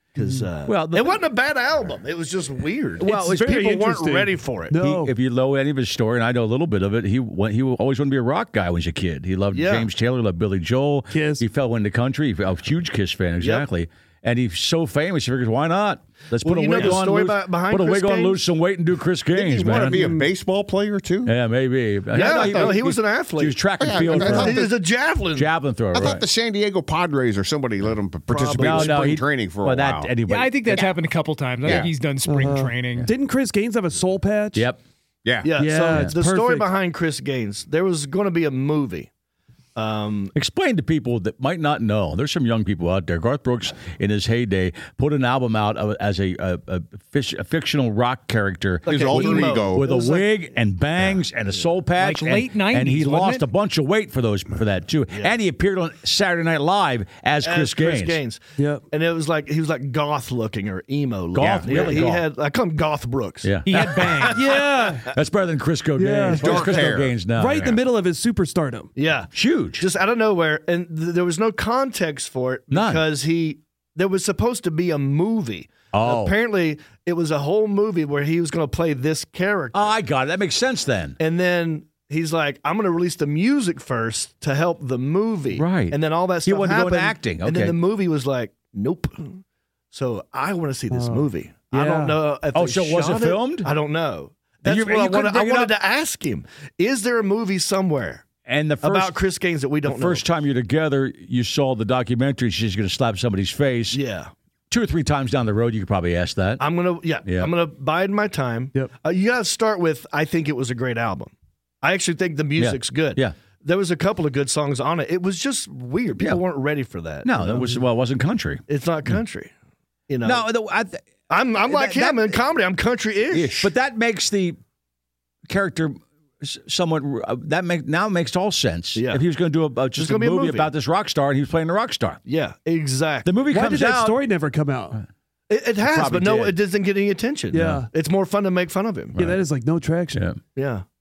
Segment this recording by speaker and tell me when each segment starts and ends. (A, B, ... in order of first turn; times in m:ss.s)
0:00.1-0:04.8 A
0:00.2-0:00.4 B
0:00.6-0:01.2 C
0:03.0-0:03.3 C
0:03.0-0:05.1 B
0:04.8-0:20.1 C
0:09.5-0:09.9 A
0:11.1-0:11.5 B
0:13.4-0:13.7 A
0:16.4-0:18.4 A
0:19.3-0:21.3 D
0:19.8-0:20.3 B
0:21.2-0:24.7 C
0:22.1-0:25.5 A
0:22.2-0:22.7 D
0:23.8-0:24.7 D
0:25.3-0:26.3 C
0:25.9-0:30.1 D
0:28.3-0:29.0 A
0:28.6-0:30.8 C
0:30.3-0:33.1 E
0:32.2-0:34.7 B
0:34.5-0:34.8 C
0:35.2-0:35.5 D
0:35.4-0:39.1 A
0:35.5-0:36.7 B
0:35.9-0:36.2 C
0:39.7-0:40.3 A
0:40.3-0:58.2 C
0:48.8-0:49.9 D
0:48.8-0:50.2 A
0:52.0-0:53.5 E
0:55.1-0:55.3 A
0:57.4-1:05.0 A
1:01.3-1:02.2 C
1:03.4-1:04.4 C
1:03.6-1:04.4 E
1:04.3-1:05.1 B
1:05.1-1:07.8 C
1:06.0-1:08.9 B
1:06.4-1:07.2 D
1:08.9-1:19.9 A
1:09.3-1:09.8 C
1:12.7-1:13.0 C
1:15.9-1:16.3 C
1:19.7-1:21.2 C
1:21.2-1:38.2 A
1:25.5-1:27.8 C
1:30.9-1:32.2 B
1:32.5-1:33.7 C
1:34.6-1:35.7 C
1:38.4-1:39.2 C
1:38.8-1:40.2 A
1:39.8-1:44.0 C
1:43.9-1:44.3 A
1:44.7-1:46.7 C
1:46.6-1:57.7 A
1:47.2-1:47.5 C
1:52.6-1:53.3 C
1:57.2-1:58.6 C
1:58.7-1:59.5 A
2:00.1-2:00.5 A
2:00.2-2:01.0 C
2:01.3-2:03.7 A
2:01.6-2:02.4 C
2:03.3-2:04.6 C
2:05.5-2:12.2 C
2:08.9-2:09.2 A
2:09.9-2:10.7 A
2:12.2-2:13.3 A
2:13.2-2:14.2 C
2:13.5-2:15.0 B
2:15.5-2:19.2 A
2:15.8-2:16.6 C
2:17.5-2:17.9 B
2:19.1-2:20.3 B
2:19.2-2:19.4 C
2:20.5-2:20.8 A